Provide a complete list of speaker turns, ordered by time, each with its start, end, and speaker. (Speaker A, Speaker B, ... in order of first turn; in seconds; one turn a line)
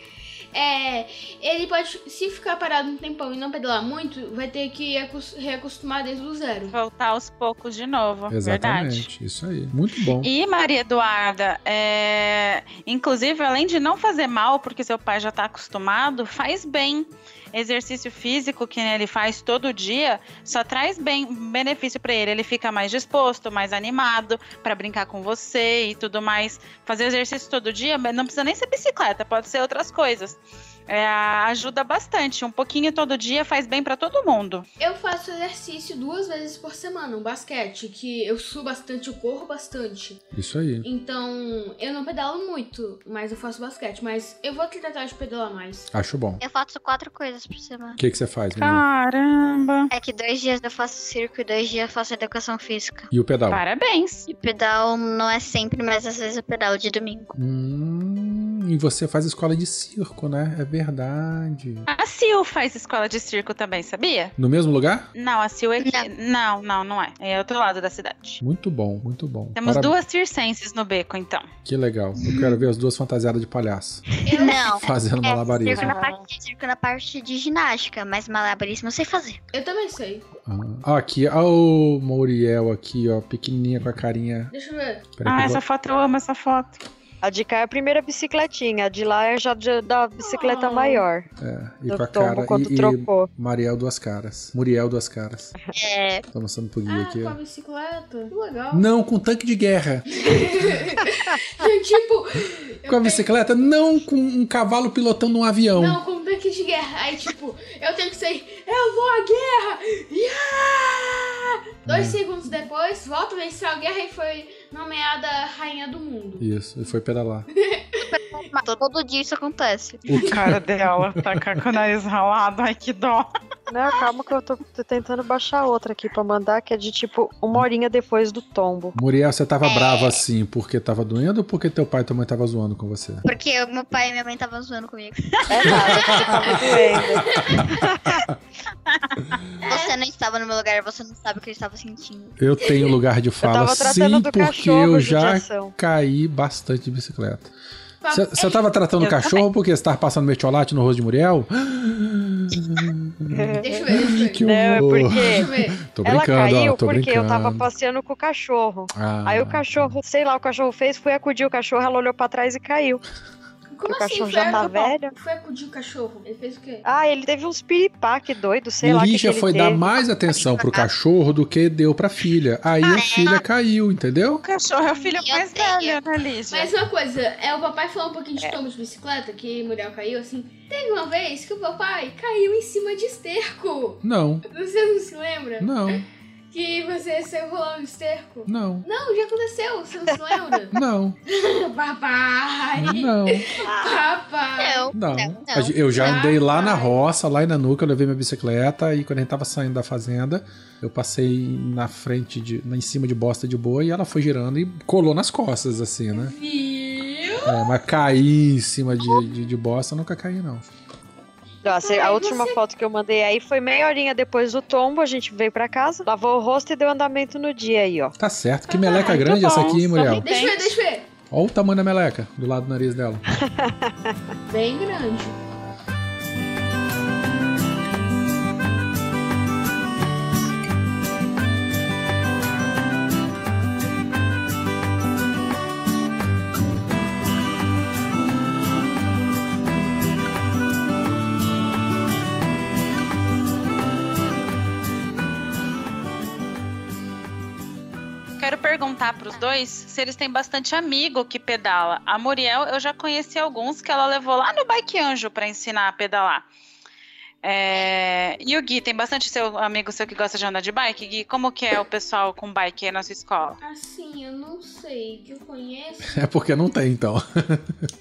Speaker A: 0.5-6.7
Speaker B: 6.7-9.1
Speaker C: 8.3-10.3
Speaker B: 10.2-34.7
Speaker A: 34.8-40.2
Speaker C: 40.3-40.9
Speaker A: 40.8-45.9
Speaker C: 45.9-46.4
Speaker D: 46.4-48.0
Speaker C: 48.0-48.8
Speaker B: 48.6-49.9
Speaker D: 49.9-53.1
Speaker C: 53.1-53.6
Speaker B: 53.5-54.3
Speaker D: 54.3-57.3
Speaker C: 57.4-61.9
Speaker B: 61.9-64.3
Speaker C: 64.4-65.1
Speaker B: 65.1-68.4
Speaker D: 65.8-66.1
Speaker C: 68.4-69.9
Speaker B: 69.5-71.5
Speaker C: 71.7-75.9
Speaker A: 74.2-74.6
Speaker D: 74.3-79.4
Speaker B: 75.7-76.2
Speaker A: 79.5-80.2
Speaker C: 80.5-84.5
Speaker A: 84.5-85.0
Speaker C: 85.2-85.6
Speaker B: 85.3-86.8
Speaker E: 87.2-91.3
Speaker A: 90.2-91.0
Speaker C: 91.4-95.5
Speaker E: 91.9-93.3
Speaker D: 95.7-96.2
Speaker C: 96.3-97.4
Speaker A: 96.9-98.9
Speaker C: 98.7-100.7
Speaker A: 100.1-103.3
Speaker C: 102.9-106.0
Speaker A: 105.8-116.5
Speaker C: 111.9-112.2
Speaker C: 116.4-117.5
Speaker A: 117.5-118.1
Speaker D: 118.0-120.1
Speaker C: 120.1-121.6
Speaker B: 120.1-123.3
Speaker E: 123.7-128.9
Speaker C: 128.9-133.2
Speaker D: 129.6-130.2
Speaker D: 133.2-136.6
Speaker E: 135.5-138.2
Speaker C: 136.0-136.7
Speaker A: 137.3-137.7
Speaker C: 137.3-138.4
Speaker B: 138.9-139.3
Speaker A: 139.6-139.9
Speaker D: 139.7-142.4
Speaker C: 142.4-147.5
Speaker E: 143.4-145.7
Speaker A: 148.0-148.6
Speaker C: 148.1-157.7
Speaker B: 149.0-149.4
Speaker E: 153.3-153.7
Speaker A: 153.6-154.4
Speaker E: 154.4-155.5
Speaker A: 155.1-155.8
Speaker E: 156.0-163.0
Speaker C: 158.9-160.0
Speaker A: 163.7-166.8
Speaker E: 163.9-165.1
Speaker B: 164.6-164.9
Speaker E: 166.8-169.8
Speaker C: 168.8-174.4
Speaker D: 170.3-170.9
Speaker D: 172.8-173.4
Speaker B: 174.4-176.7
Speaker D: 175.1-176.0
Speaker A: 176.5-185.7
Speaker C: 184.0-184.4
Speaker C: 185.6-186.0
Speaker A: 186.5-194.9
Speaker C: 188.5-188.9
Speaker C: 190.7-191.2
Speaker C: 192.8-193.5
Speaker D: 193.7-194.0
Speaker D: 194.6-195.8
Speaker C: 194.9-206.3
Speaker A: 195.9-197.0
Speaker A: 206.1-207.7
Speaker C: 207.4-210.7
Speaker E: 211.6-218.1
Speaker A: 211.6-212.6
Speaker C: 218.2-220.2
Speaker A: 218.7-219.3
Speaker B: 218.9-220.7
Speaker A: 220.2-221.1
Speaker C: 221.3-223.2
Speaker E: 223.3-224.2
Speaker A: 224.5-225.4
Speaker B: 248.4-256.5
Speaker B: 257.4-263.6
Speaker A: 263.6-266.2
Speaker C: 266.1-267.9